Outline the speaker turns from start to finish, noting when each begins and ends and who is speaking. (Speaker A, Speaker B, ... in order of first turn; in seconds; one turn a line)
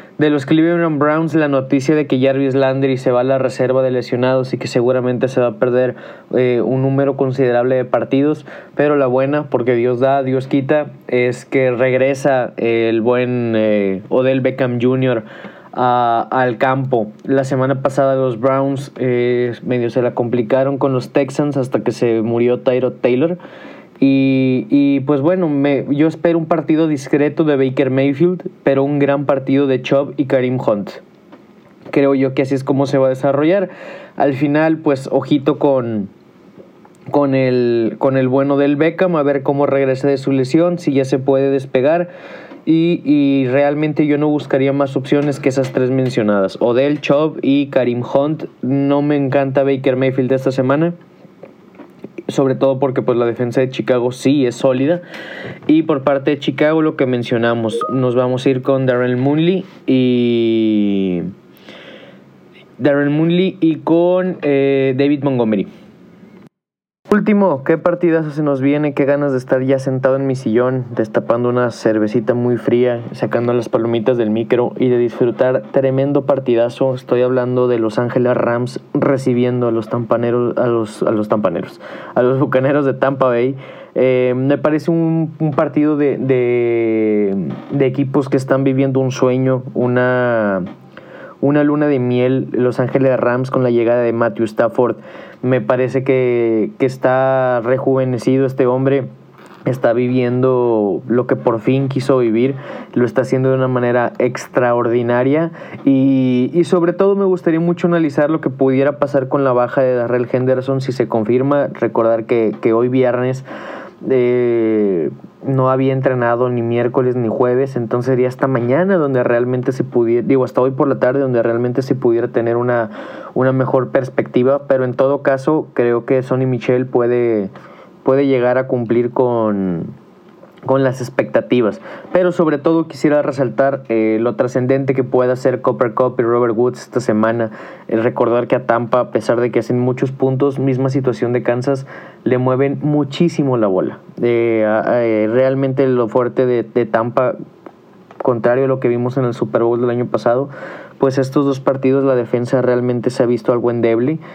Speaker A: 0.2-23.4
Speaker A: 24.0-31.0
Speaker A: 31.9-36.1
Speaker A: 37.1-42.1
Speaker A: 42.6-51.0
Speaker A: 52.3-55.0
Speaker A: 55.7-61.3
Speaker A: 62.8-65.7
Speaker A: 67.1-90.7
Speaker A: 91.4-99.1
Speaker A: 99.7-113.5
Speaker A: 114.0-127.5
Speaker A: 128.0-129.9
Speaker A: 130.7-147.3
Speaker A: 148.2-154.2